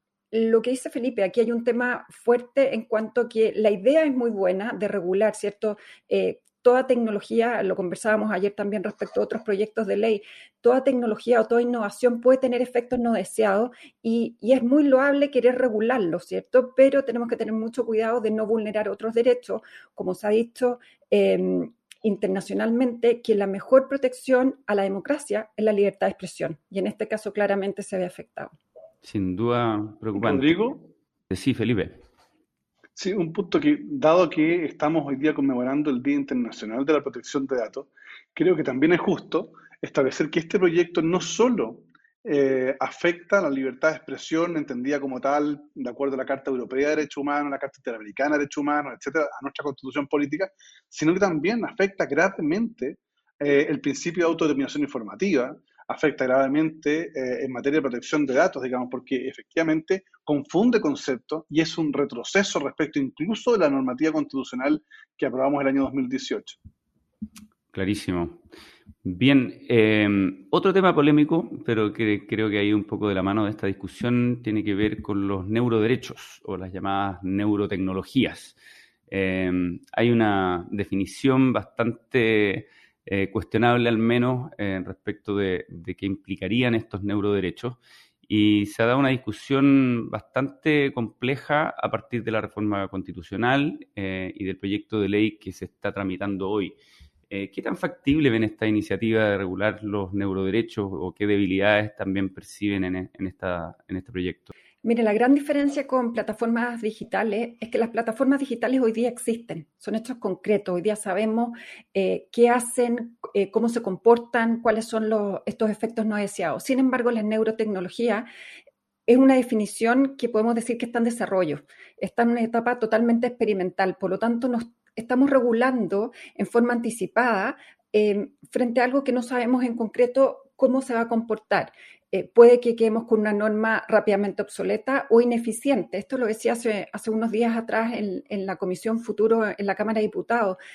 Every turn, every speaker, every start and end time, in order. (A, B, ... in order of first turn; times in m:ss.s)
0:00.3-0:28.6 A
0:29.0-0:30.6 B
0:30.2-0:30.9 C
0:31.3-0:32.0 B
0:33.0-1:06.6 C
1:07.7-1:08.4 B
1:09.0-1:18.6 B
1:19.1-1:36.8 B
1:37.3-1:44.5 B
1:44.8-1:58.3 A
1:59.1-2:20.6 A